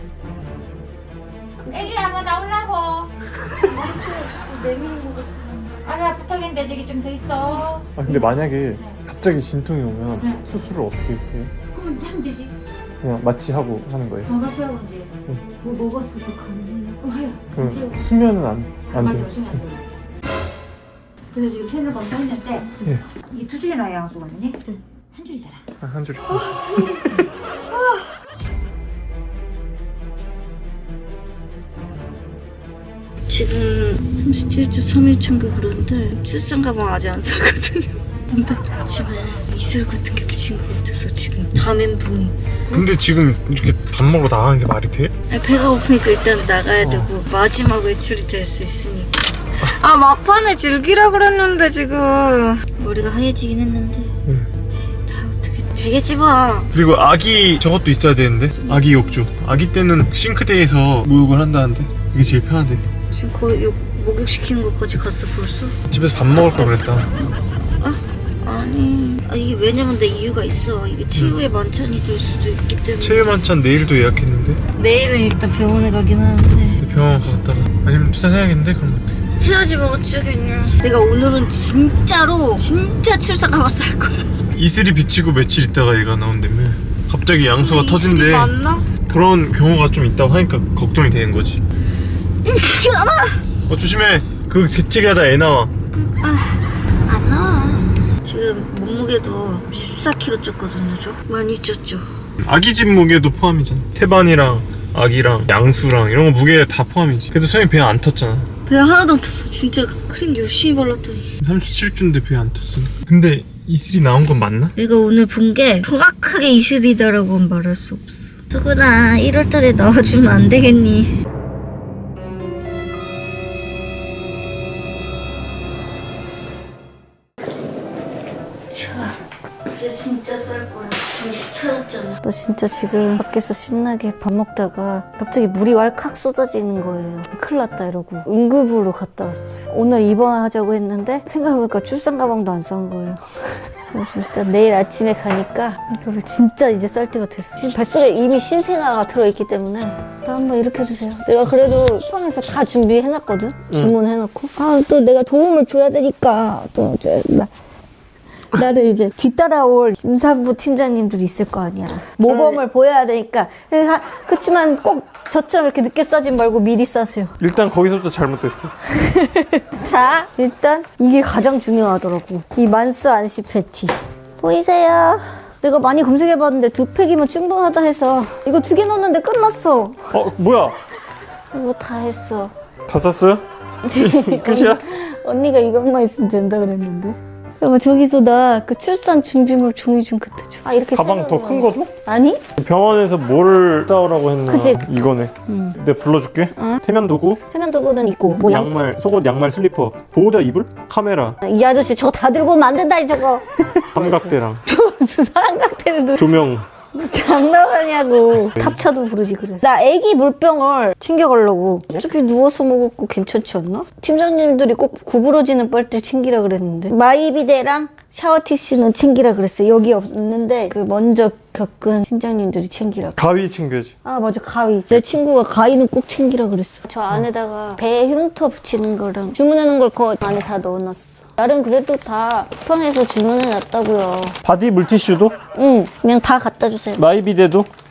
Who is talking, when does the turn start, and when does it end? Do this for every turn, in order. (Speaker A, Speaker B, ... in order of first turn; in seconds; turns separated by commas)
Speaker A: 1.7-2.1, Speaker B: 1.7-3.1, Speaker A: 3.6-5.7, Speaker B: 3.8-7.9, Speaker C: 8.0-11.5, Speaker B: 11.8-12.5, Speaker C: 13.0-14.4, Speaker B: 14.4-17.9, Speaker C: 17.6-19.6, Speaker B: 19.0-19.8, Speaker B: 21.4-22.8, Speaker B: 23.3-24.6, Speaker B: 25.1-25.6, Speaker C: 25.8-27.2, Speaker A: 27.7-28.0, Speaker A: 33.3-42.8, Speaker C: 42.7-45.1, Speaker A: 45.3-54.2, Speaker C: 46.8-47.2, Speaker A: 55.0-56.7, Speaker C: 56.7-62.8, Speaker A: 63.1-65.8, Speaker C: 65.9-67.1, Speaker A: 66.6-67.2, Speaker A: 67.8-73.3, Speaker C: 73.0-74.6, Speaker A: 74.8-76.8, Speaker C: 76.8-79.2, Speaker A: 79.4-84.3, Speaker C: 84.5-88.5, Speaker A: 87.6-88.9, Speaker C: 89.1-91.6, Speaker A: 92.4-93.4, Speaker C: 93.7-95.7, Speaker A: 96.0-102.1, Speaker C: 102.4-108.5, Speaker A: 108.7-111.3, Speaker C: 111.4-114.8, Speaker A: 114.8-121.2, Speaker A: 128.7-157.5, Speaker A: 158.5-167.4, Speaker C: 162.2-162.6, Speaker C: 167.4-168.7, Speaker A: 168.9-180.1, Speaker C: 180.1-180.8, Speaker A: 181.5-182.5, Speaker C: 182.9-184.8, Speaker A: 183.8-192.4, Speaker C: 190.9-191.9, Speaker C: 192.6-197.4, Speaker A: 194.5-194.8, Speaker A: 195.5-195.8, Speaker A: 196.6-196.8, Speaker A: 197.5-198.8, Speaker C: 198.3-201.4, Speaker A: 201.4-206.3, Speaker C: 203.9-204.6, Speaker C: 206.2-206.7, Speaker A: 206.9-223.2, Speaker C: 223.2-223.9, Speaker A: 224.0-234.4, Speaker C: 234.4-235.4, Speaker A: 235.6-237.0, Speaker C: 237.0-237.7